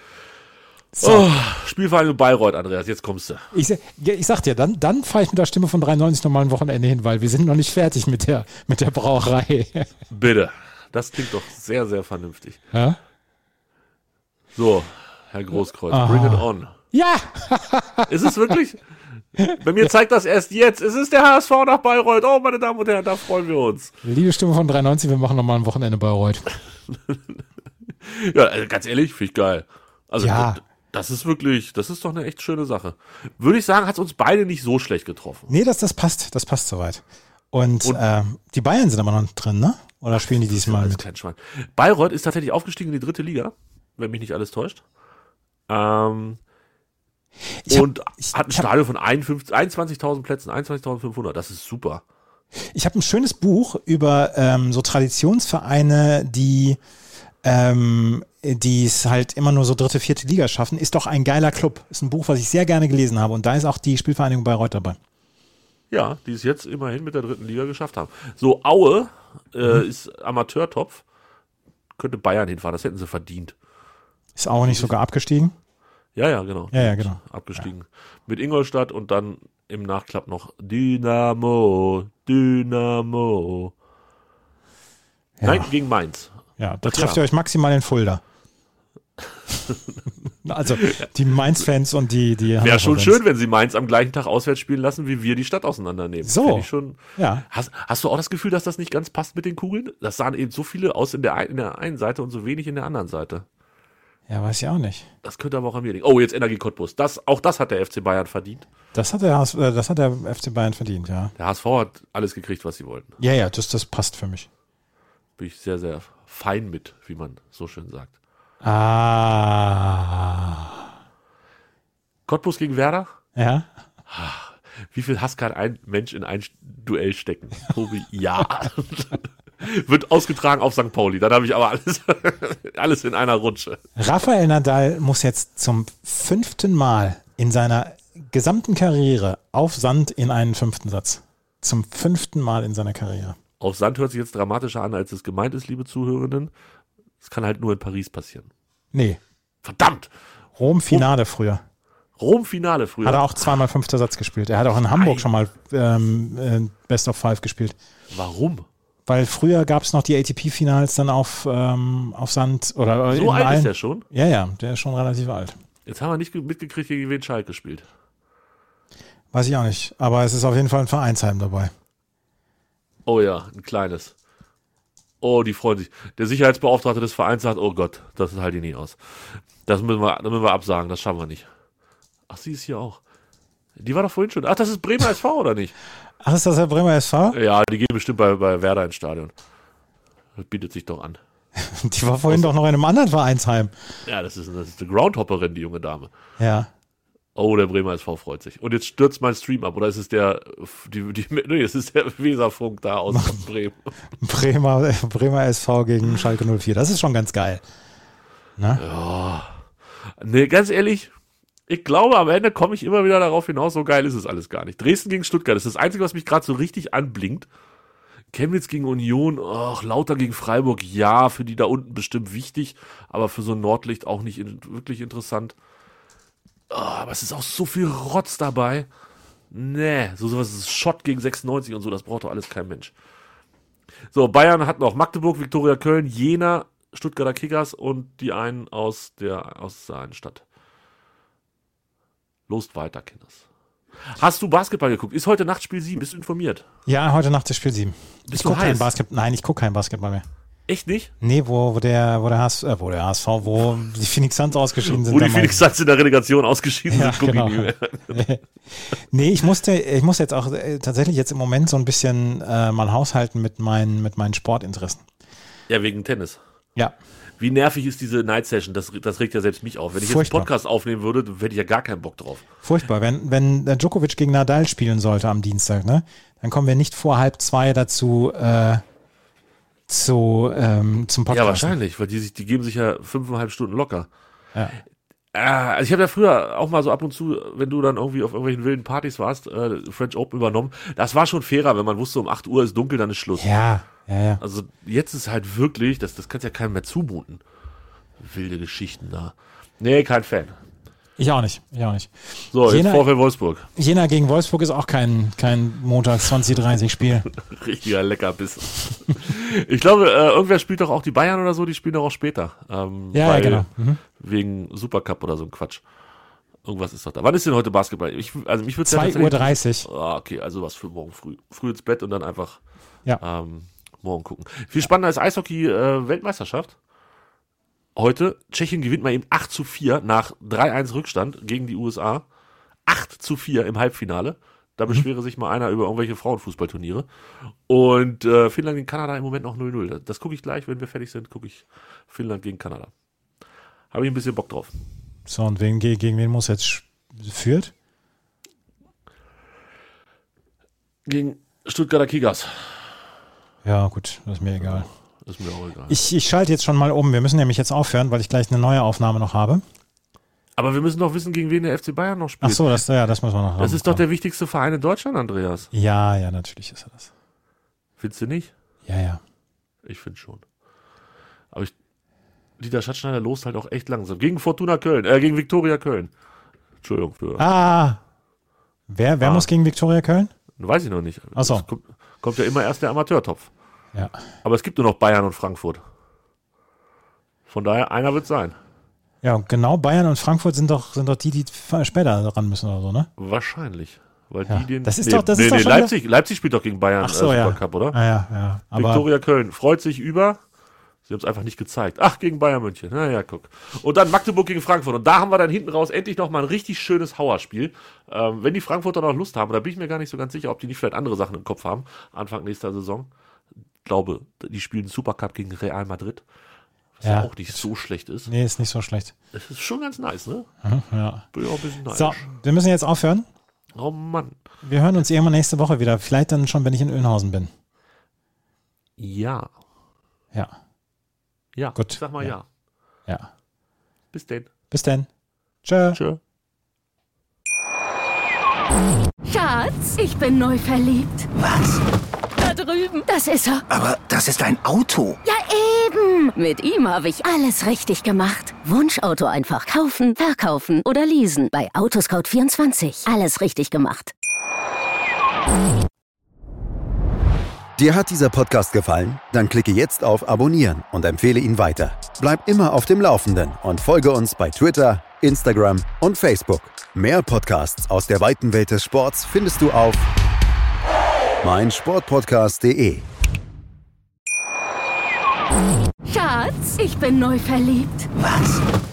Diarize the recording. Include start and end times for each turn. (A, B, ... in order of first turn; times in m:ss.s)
0:01.0-0:01.3 A
0:01.0-0:03.5 B
0:03.5-0:09.9 A
0:10.1-0:12.6 B
0:12.7-0:13.0 A
0:14.5-0:16.8 B
0:15.9-0:18.5 A
0:18.1-0:18.8 B
0:19.4-0:19.9 A
0:19.5-0:23.9 B
0:24.0-0:26.4 A
0:26.9-0:35.5 B
0:30.2-0:30.6 A
0:35.5-0:41.0 A
0:40.2-0:44.8 B
0:45.7-0:46.4 B
0:47.6-0:48.7 A
0:47.7-0:52.0 B
0:52.7-0:56.8 A
0:57.4-1:05.0 A
1:05.9-1:11.0 B
1:12.0-1:13.6 B
1:14.4-1:15.5 A
1:14.6-1:15.0 B
1:16.2-1:23.7 B
1:16.7-1:17.6 A
1:25.4-1:25.7 A
1:25.4-1:26.3 B
1:26.6-1:28.2 A
1:26.8-1:27.2 B
1:29.5-1:30.0 B
1:30.4-1:33.2 A
1:30.7-1:31.1 B
1:32.6-1:43.4 B
1:36.2-1:37.4 A
1:44.3-1:45.1 A
1:45.2-1:48.7 B
1:48.9-1:51.3 A
1:51.4-1:53.2 B
1:53.2-1:54.5 A
1:55.4-1:58.1 B
1:58.6-2:00.9 A
2:02.3-2:03.1 B
2:03.4-2:03.7 A
2:04.1-2:13.8 B
2:14.0-2:23.4 A
2:23.6-2:26.5 B
2:27.2-2:28.5 B
2:28.9-2:29.2 A
2:29.6-2:30.1 B
2:30.6-2:31.6 A
2:32.2-2:33.6 B
2:33.0-2:37.8 A
2:34.9-2:35.3 B
2:38.1-2:38.7 B
2:39.1-2:45.6 A
2:43.1-2:44.0 B
2:45.9-2:47.9 B
2:49.3-2:51.7 A
2:53.1-2:54.1 B
2:55.2-3:01.5 B
3:02.3-3:03.0 B
3:03.8-3:05.7 B
3:06.2-3:07.4 A
3:07.3-3:09.3 B
3:10.4-3:11.2 B
3:11.6-3:13.7 A
3:14.1-3:16.1 B
3:16.4-3:16.7 A
3:17.4-3:23.9 B
3:23.1-3:23.4 A
3:24.2-3:27.6 A
3:28.6-3:28.8 A
3:28.8-3:29.6 B
3:30.2-3:31.1 B
3:31.7-3:37.5 B
3:38.3-3:45.6 B
3:46.7-3:48.9 B
3:49.5-3:52.9 B
3:54.1-4:00.4 B
4:02.5-4:03.4 B
4:04.1-4:06.6 B
4:06.9-4:10.3 A
4:08.3-4:08.9 B
4:10.7-4:11.1 B
4:11.2-4:15.6 A
4:14.8-4:18.3 B
4:16.9-4:25.0 A
4:25.7-4:26.4 B
4:27.4-4:32.4 B
4:30.0-4:30.5 A
4:32.6-4:38.8 A
4:39.9-4:41.8 A
4:41.3-4:44.1 B
4:45.3-4:53.5 B
4:53.4-4:54.4 A
4:54.4-4:57.4 B
4:58.2-5:00.6 B
5:01.2-5:03.1 A
5:02.5-5:03.7 B
5:03.8-5:07.3 A
5:07.4-5:15.8 B
5:13.1-5:14.0 A
5:16.6-5:22.6 B
5:18.8-5:19.9 A
5:23.2-5:26.8 B
5:28.0-5:32.2 B
5:32.9-5:37.1 B
5:37.7-5:42.9 B
5:43.9-5:44.7 B
5:45.3-5:47.7 A
5:51.1-5:52.9 B
5:53.6-5:54.9 A
5:54.6-5:56.0 B
5:55.9-5:59.6 A
6:00.6-6:02.8 B
6:02.4-6:04.0 A
6:03.6-6:05.7 B
6:05.7-6:07.1 A
6:08.0-6:08.5 B
6:08.9-6:09.2 A
6:09.8-6:10.4 B
6:12.6-6:16.1 B
6:16.8-6:17.5 B
6:17.4-6:18.0 A
6:18.9-6:20.3 A
6:19.2-6:19.5 B
6:20.6-6:23.5 B
6:21.4-6:21.7 A
6:23.9-6:24.2 A
6:24.4-6:25.8 B
6:27.5-6:28.6 B
6:29.2-6:33.1 A
6:33.2-6:38.0 B
6:34.5-6:35.9 A
6:37.0-6:39.1 A
6:38.7-6:40.4 B
6:41.1-6:53.1 B
6:53.8-6:56.2 B
6:57.0-6:58.3 B
6:57.0-6:57.6 A
6:58.3-6:59.1 A
6:59.3-7:00.5 B
7:00.6-7:01.3 A
7:01.3-7:02.3 B
7:01.9-7:03.3 A
7:03.8-7:04.4 B
7:04.6-7:07.5 A
7:09.0-7:09.5 B
7:11.6-7:12.5 B
7:11.8-7:12.3 A
7:14.1-7:14.5 B
7:14.7-7:15.1 A
7:15.6-7:16.0 A
7:15.9-7:16.2 B
7:19.2-7:21.3 C
7:21.4-7:21.8 D
7:22.4-7:23.6 C
7:23.7-7:25.2 D
7:25.2-7:34.1 C
7:37.8-7:50.1 E
7:51.4-7:53.0 E
7:56.1-7:58.1 C
7:58.2-7:58.6 D